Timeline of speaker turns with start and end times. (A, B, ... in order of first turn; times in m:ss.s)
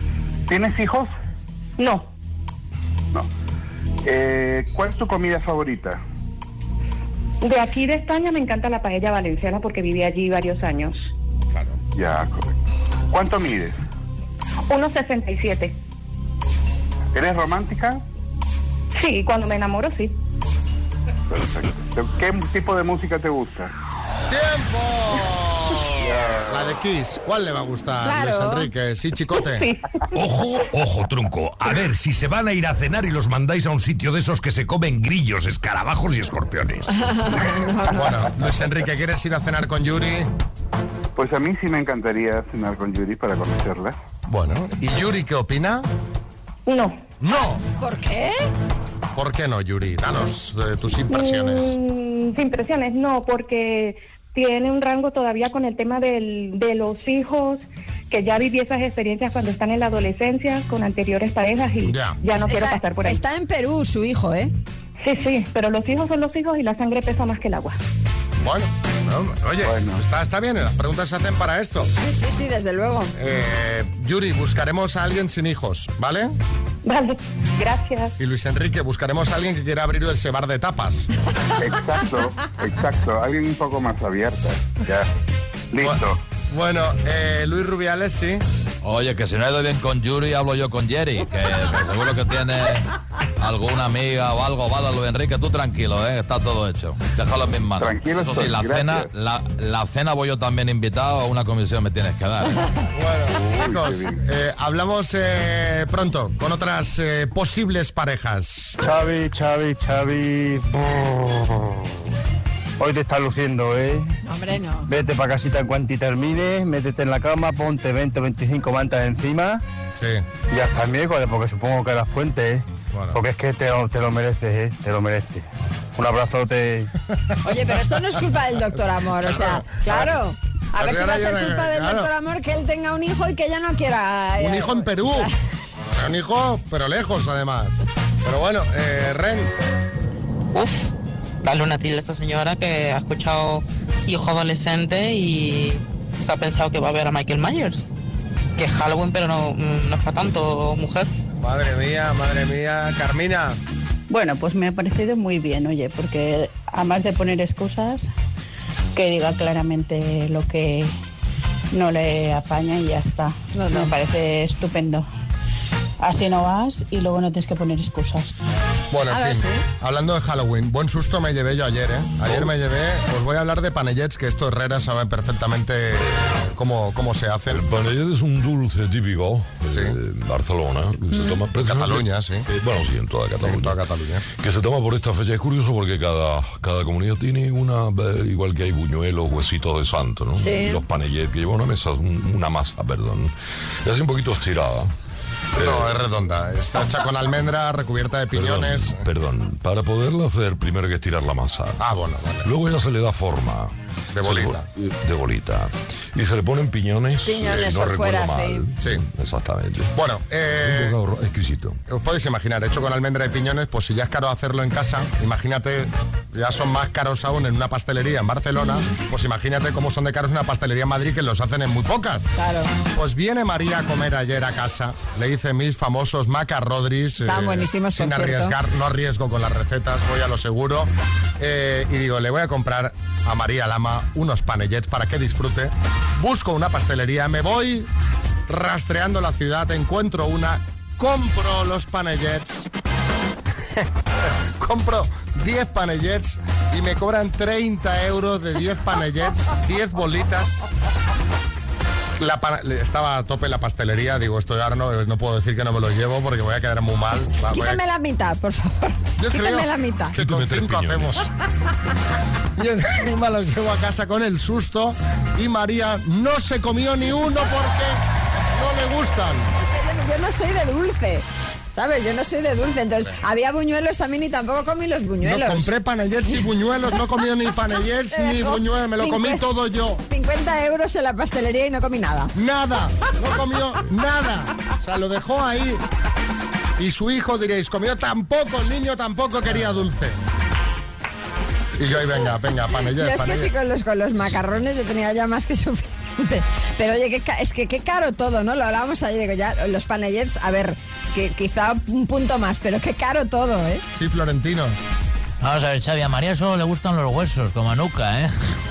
0:00.5-0:01.1 A
0:04.0-0:06.0 A
0:07.4-0:11.0 B
0:12.0-0:12.6 A
0:13.1-0:13.8 A
0:14.7-0:15.7 B
0:17.1-0:18.0 A
0:19.0-0:20.1 B
0:21.3-0:23.7 A
0:24.3-0:29.7 C
0:28.0-0:28.7 D
0:30.1-0:37.0 E
0:36.9-0:38.1 D
0:37.9-0:40.3 C
0:41.2-0:44.0 A
0:44.3-0:45.9 C
0:47.2-0:47.6 C
0:47.8-0:48.4 D
0:49.1-0:51.8 C
0:51.7-0:57.6 B
0:58.1-1:03.2 B
1:01.8-1:02.2 C
1:02.3-1:04.5 D
1:05.0-1:07.8 B
1:08.4-1:11.9 C
1:09.6-1:10.0 A
1:12.0-1:13.1 D
1:13.2-1:16.3 C
1:17.6-1:18.1 B
1:18.2-1:21.1 C
1:21.6-1:25.1 A
1:25.7-1:26.2 A
1:25.8-1:28.4 C
1:28.8-1:42.6 F
1:37.8-1:39.1 A
1:43.0-1:48.8 C
1:43.3-1:44.2 A
1:48.8-1:50.7 G
1:52.8-1:54.2 G
1:54.2-1:54.9 D
1:54.9-1:59.6 G
2:00.0-2:00.2 C
2:00.5-2:06.9 G
2:07.4-2:15.3 D
2:09.2-2:10.2 C
2:10.8-2:12.1 C
2:14.4-2:15.3 C
2:15.9-2:19.5 C
2:20.5-2:27.8 H
2:28.6-2:31.1 H
2:31.4-2:33.6 C
2:34.1-2:38.1 I
2:39.0-2:40.9 I
2:41.7-2:45.1 I
2:43.5-2:43.9 D
2:46.0-2:48.3 I
2:48.9-2:57.6 C
2:49.1-2:49.6 D
2:57.5-3:03.8 J
2:59.7-3:00.0 C
3:01.1-3:01.4 D
3:01.6-3:02.5 C
3:03.4-3:04.2 C
3:04.4-3:13.3 J
3:10.4-3:10.8 D
3:13.8-3:14.9 J
3:15.6-3:19.0 C
3:15.6-3:15.9 J
3:18.3-3:21.8 J
3:21.8-3:22.5 C
3:22.4-3:29.9 J
3:24.1-3:24.7 C
3:27.2-3:28.6 D
3:28.8-3:29.0 C
3:29.9-3:31.0 C
3:30.6-3:31.8 J
3:31.9-3:42.3 C
3:38.6-3:38.8 D
3:42.4-3:42.7 D
3:42.9-3:57.9 C
3:47.2-3:48.6 D
3:58.5-4:02.7 C
4:04.6-4:10.6 C
4:12.2-4:17.8 C
4:17.5-4:20.2 D
4:19.2-4:21.3 C
4:20.1-4:21.2 J
4:22.6-4:28.0 C
4:28.5-4:29.5 C
4:29.6-4:35.7 D
4:35.2-4:40.0 C
4:38.1-4:39.4 D
4:40.1-4:42.3 D
4:42.4-4:45.8 C
4:46.8-4:50.2 C
4:51.8-4:53.5 C
4:53.0-5:03.8 D
5:03.9-5:04.8 C
5:05.4-5:08.4 K